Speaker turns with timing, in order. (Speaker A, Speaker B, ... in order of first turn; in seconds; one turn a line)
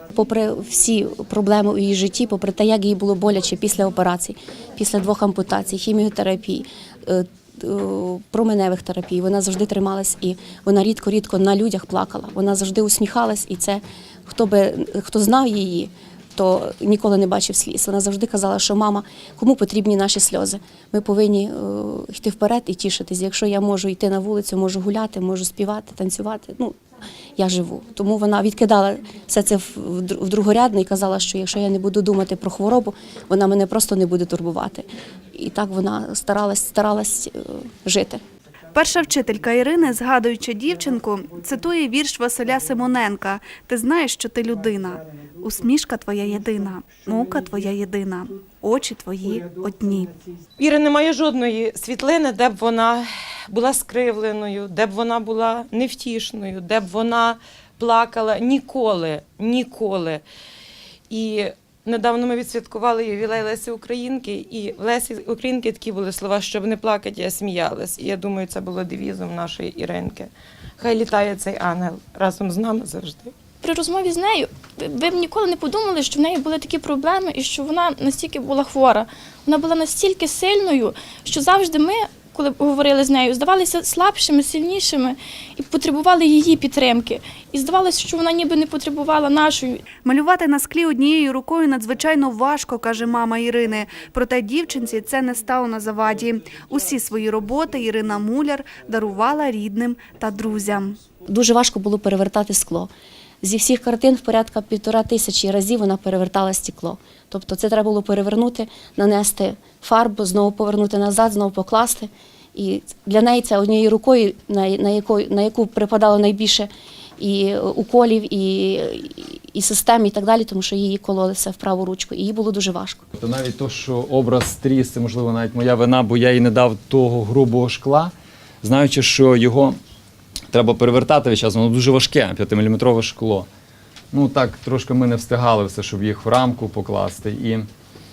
Speaker A: 0.1-26.8
Speaker A: 27.4-38.2
Speaker B: 38.7-50.1
Speaker C: 50.6-60.2
Speaker C: 61.1-73.3
Speaker D: 73.6-89.8
Speaker B: 90.0-101.0
Speaker A: 101.2-102.9
Speaker A: 103.4-123.0
Speaker E: 123.2-129.8
Speaker E: 130.5-133.5
Speaker E: 134.1-137.7